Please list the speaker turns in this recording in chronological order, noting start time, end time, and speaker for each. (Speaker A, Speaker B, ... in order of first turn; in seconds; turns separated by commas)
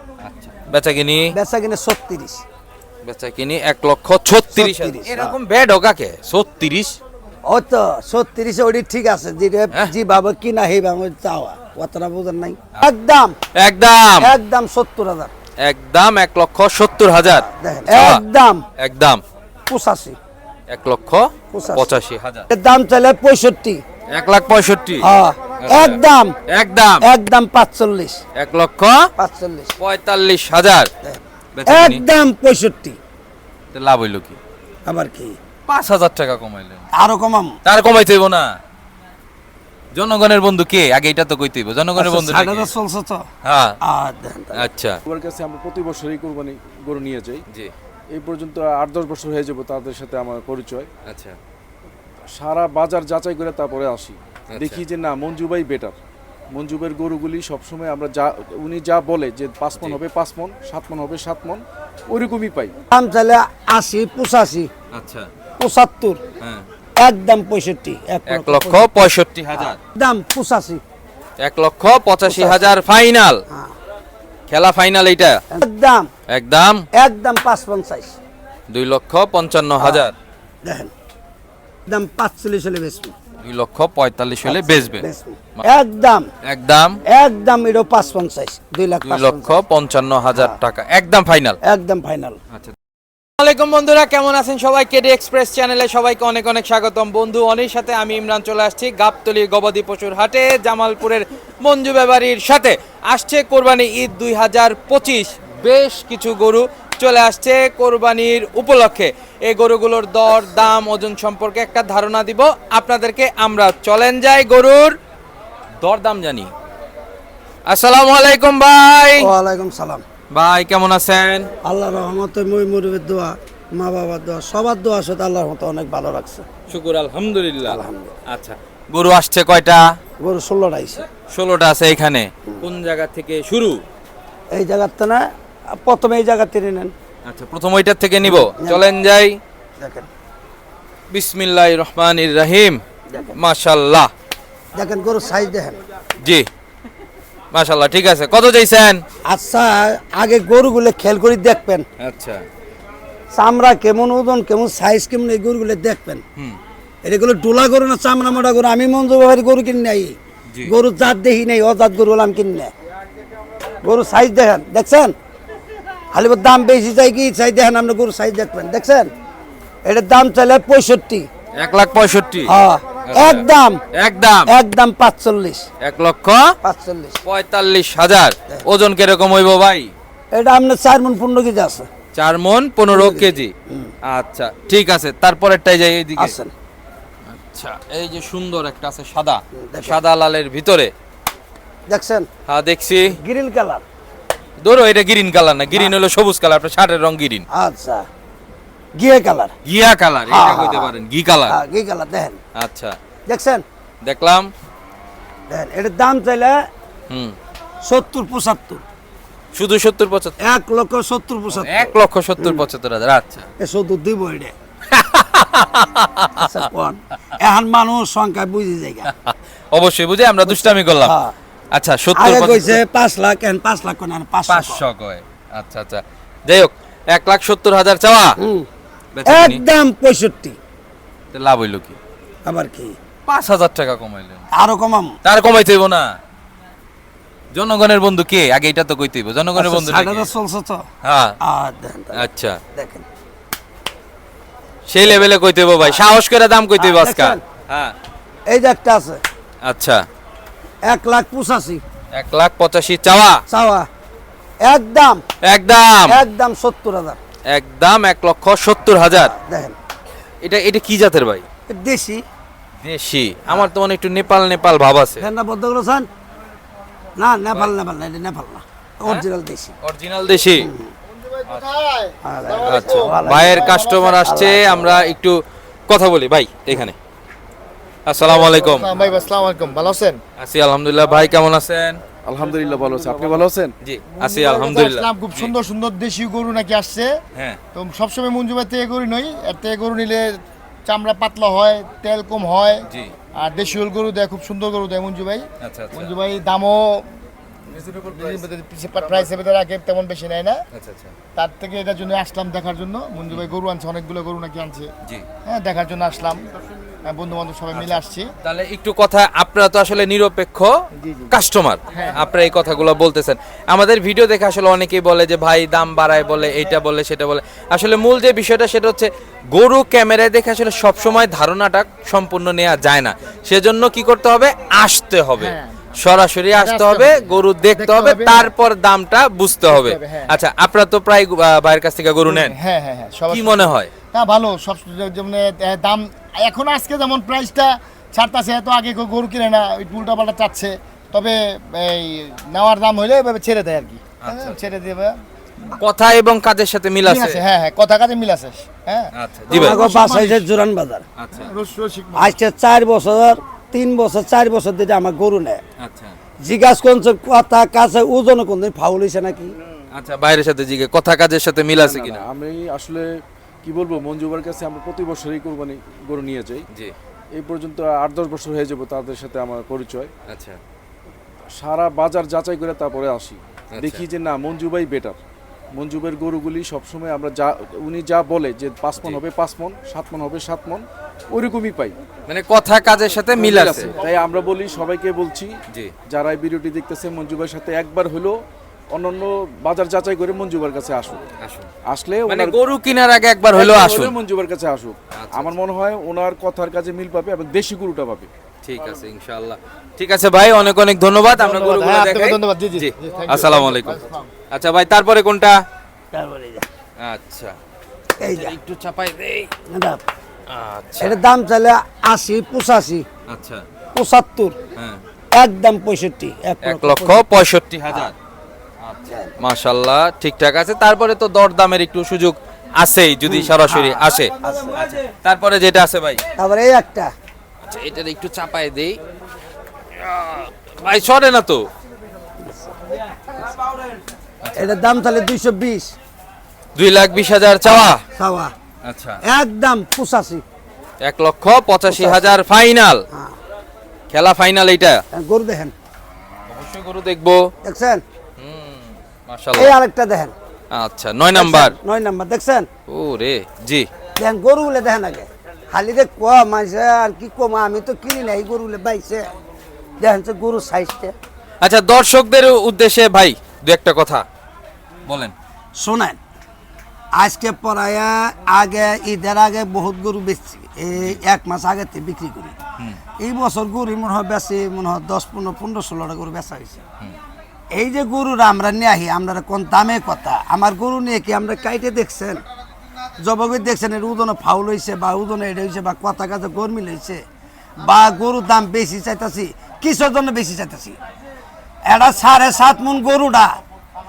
Speaker A: 0.2-1.3, Speaker B: 1.3-2.4, Speaker A: 3.0-7.0, Speaker B: 4.5-5.3, Speaker B: 7.4-13.3, Speaker A: 13.6-14.3, Speaker B: 14.2-15.3, Speaker A: 15.6-18.2, Speaker B: 17.5-18.6, Speaker A: 18.8-19.2, Speaker B: 19.7-20.2, Speaker A: 20.7-22.4, Speaker B: 21.5-22.0, Speaker B: 22.5-23.8, Speaker A: 24.1-25.1, Speaker B: 25.0-26.4, Speaker A: 25.6-27.0, Speaker B: 27.0-28.2, Speaker A: 28.4-29.1, Speaker B: 29.2-29.8, Speaker A: 29.8-30.9, Speaker B: 31.0-33.0, Speaker A: 31.5-32.0, Speaker A: 33.7-34.4, Speaker B: 34.9-35.4, Speaker A: 35.7-36.9, Speaker B: 36.9-37.5, Speaker A: 37.6-38.5, Speaker A: 39.9-42.7, Speaker B: 42.0-43.2, Speaker A: 43.4-43.8, Speaker B: 43.8-44.7, Speaker A: 44.5-45.0, Speaker C: 45.0-47.4, Speaker C: 48.1-50.9, Speaker A: 51.0-51.4, Speaker C: 52.2-55.9, Speaker A: 54.5-54.8, Speaker C: 56.5-62.7, Speaker B: 62.9-64.7, Speaker A: 64.9-65.3, Speaker B: 65.6-66.2, Speaker A: 66.4-66.7, Speaker B: 67.0-70.8, Speaker A: 68.3-69.8, Speaker A: 71.4-73.4, Speaker B: 72.2-72.8, Speaker B: 73.5-73.7, Speaker A: 74.5-75.4, Speaker B: 75.5-76.1, Speaker A: 76.3-76.8, Speaker B: 76.9-78.2, Speaker A: 78.7-80.1, Speaker B: 79.8-80.1, Speaker B: 80.6-80.9, Speaker B: 81.8-83.1, Speaker A: 83.4-85.0, Speaker B: 84.4-86.3, Speaker A: 86.4-87.0, Speaker B: 87.0-89.5, Speaker A: 89.0-91.6, Speaker B: 91.6-92.4, Speaker A: 93.4-114.9, Speaker A: 115.8-116.5, Speaker A: 117.7-119.3, Speaker B: 119.2-120.0, Speaker A: 120.3-121.5, Speaker B: 121.6-126.5, Speaker A: 126.7-129.9, Speaker B: 127.6-128.1, Speaker B: 130.2-131.1, Speaker A: 131.3-133.8, Speaker B: 134.5-136.9, Speaker A: 137.2-139.4, Speaker B: 138.2-138.8, Speaker B: 139.8-140.1, Speaker A: 141.1-142.8, Speaker B: 143.1-143.3, Speaker A: 143.3-144.1, Speaker B: 144.7-145.8, Speaker A: 146.2-146.5, Speaker A: 147.5-149.0, Speaker B: 149.2-151.8, Speaker A: 152.0-152.4, Speaker B: 153.3-156.2, Speaker B: 157.0-162.7, Speaker B: 163.8-165.1, Speaker B: 166.1-169.1, Speaker B: 169.8-171.3, Speaker A: 171.6-172.5, Speaker B: 172.4-173.8, Speaker A: 173.0-174.5, Speaker B: 174.5-175.7, Speaker A: 175.8-176.4, Speaker B: 176.6-177.2, Speaker A: 177.2-179.9, Speaker B: 180.3-181.9, Speaker A: 182.1-183.5, Speaker B: 182.9-183.9, Speaker A: 184.1-186.3, Speaker B: 186.2-186.5, Speaker A: 187.3-190.9, Speaker B: 189.5-190.0, Speaker B: 191.9-192.3, Speaker A: 192.5-193.1, Speaker B: 193.1-193.8, Speaker A: 194.6-197.4, Speaker B: 197.5-198.1, Speaker B: 198.9-199.5, Speaker A: 199.6-201.6, Speaker B: 200.3-200.9, Speaker B: 201.5-202.4, Speaker A: 202.5-203.0, Speaker B: 203.3-203.6, Speaker A: 204.0-204.5, Speaker B: 205.5-206.6, Speaker A: 207.1-207.3, Speaker B: 207.8-208.8, Speaker A: 209.5-210.4, Speaker B: 210.4-212.6, Speaker A: 211.5-213.5, Speaker B: 213.6-214.5, Speaker A: 214.9-216.5, Speaker B: 216.3-219.1, Speaker A: 219.1-221.1, Speaker B: 220.4-221.3, Speaker A: 221.7-222.8, Speaker B: 222.1-224.8, Speaker A: 224.5-228.3, Speaker B: 228.4-228.7, Speaker A: 229.1-229.6, Speaker B: 229.2-230.6, Speaker A: 231.3-232.0, Speaker B: 232.4-232.9, Speaker A: 233.3-234.4, Speaker B: 234.5-235.1, Speaker A: 235.2-236.1, Speaker A: 237.5-240.3, Speaker B: 239.6-240.8, Speaker A: 241.0-241.4, Speaker B: 241.4-243.1, Speaker A: 242.1-242.6, Speaker A: 244.9-247.9, Speaker B: 246.8-247.4, Speaker B: 248.5-249.2, Speaker A: 249.6-250.0, Speaker B: 250.9-251.8, Speaker A: 252.1-253.4, Speaker B: 253.5-253.9, Speaker B: 254.6-255.2, Speaker A: 255.4-256.2, Speaker B: 256.1-257.2, Speaker A: 257.5-259.3, Speaker B: 259.1-259.7, Speaker A: 260.4-261.4, Speaker B: 261.7-262.2, Speaker A: 262.8-265.2, Speaker B: 265.2-266.1, Speaker B: 267.2-269.7, Speaker A: 269.8-270.7, Speaker B: 270.6-270.9, Speaker D: 271.5-274.2, Speaker B: 272.2-275.1, Speaker A: 272.7-276.9, Speaker A: 278.1-278.9, Speaker D: 278.2-280.2, Speaker A: 280.4-282.0, Speaker C: 282.2-283.7, Speaker A: 283.8-285.5, Speaker D: 284.1-287.2, Speaker D: 287.7-297.1, Speaker A: 295.6-296.1, Speaker D: 297.8-300.6, Speaker C: 297.9-298.2, Speaker A: 300.7-301.1, Speaker D: 301.3-304.9, Speaker D: 305.4-306.5, Speaker D: 307.0-308.3, Speaker A: 307.7-310.7, Speaker D: 311.0-311.3, Speaker A: 311.3-332.6, Speaker D: 311.9-312.2, Speaker D: 325.4-325.7, Speaker D: 326.5-328.5, Speaker D: 329.6-330.4, Speaker D: 332.2-345.8, Speaker A: 333.3-333.9, Speaker A: 344.2-344.6, Speaker A: 345.8-347.4, Speaker D: 347.0-350.4, Speaker A: 349.1-349.8, Speaker B: 349.5-351.0, Speaker A: 351.2-351.5, Speaker D: 351.4-352.3, Speaker B: 352.1-355.6, Speaker A: 355.8-356.2, Speaker B: 356.4-359.5, Speaker A: 359.9-362.2, Speaker C: 361.7-363.1, Speaker C: 363.6-366.6, Speaker C: 367.3-370.1, Speaker A: 370.3-370.6, Speaker C: 371.5-375.2, Speaker A: 373.7-374.0, Speaker C: 375.7-382.0, Speaker A: 382.3-383.9, Speaker C: 383.3-385.5, Speaker C: 386.1-391.3, Speaker A: 391.4-391.7, Speaker C: 391.8-392.6, Speaker A: 392.3-394.1, Speaker C: 393.5-398.3, Speaker A: 395.1-395.5, Speaker A: 398.6-405.6, Speaker D: 401.3-404.3, Speaker B: 406.1-406.6, Speaker A: 407.0-407.6, Speaker B: 408.2-408.6, Speaker A: 408.2-409.5, Speaker B: 409.7-410.0, Speaker A: 410.5-411.2, Speaker B: 411.0-413.1, Speaker A: 413.3-413.6, Speaker B: 413.9-414.6, Speaker A: 414.8-415.0, Speaker B: 415.3-417.4, Speaker A: 416.6-418.1, Speaker A: 418.8-426.2, Speaker B: 423.2-425.0, Speaker B: 426.4-427.1, Speaker A: 427.6-429.0, Speaker A: 430.0-431.7, Speaker B: 432.4-432.7, Speaker B: 434.5-435.9, Speaker A: 436.8-438.0, Speaker B: 437.6-438.5, Speaker A: 438.8-439.2, Speaker B: 439.2-440.4, Speaker A: 441.0-443.0, Speaker B: 441.9-442.4, Speaker B: 443.1-443.4, Speaker A: 444.1-445.0, Speaker B: 445.1-445.7, Speaker A: 446.5-447.5, Speaker B: 447.6-448.0, Speaker A: 448.4-449.7, Speaker B: 449.5-450.3, Speaker A: 450.7-451.7, Speaker B: 451.3-452.7, Speaker A: 452.9-453.9, Speaker B: 454.2-459.3, Speaker B: 460.0-461.1, Speaker A: 461.6-464.2, Speaker A: 465.1-465.3, Speaker B: 465.8-466.2, Speaker B: 467.1-472.5, Speaker B: 473.2-476.8, Speaker B: 477.7-482.4, Speaker B: 483.2-487.2, Speaker B: 487.8-491.0, Speaker B: 491.9-493.6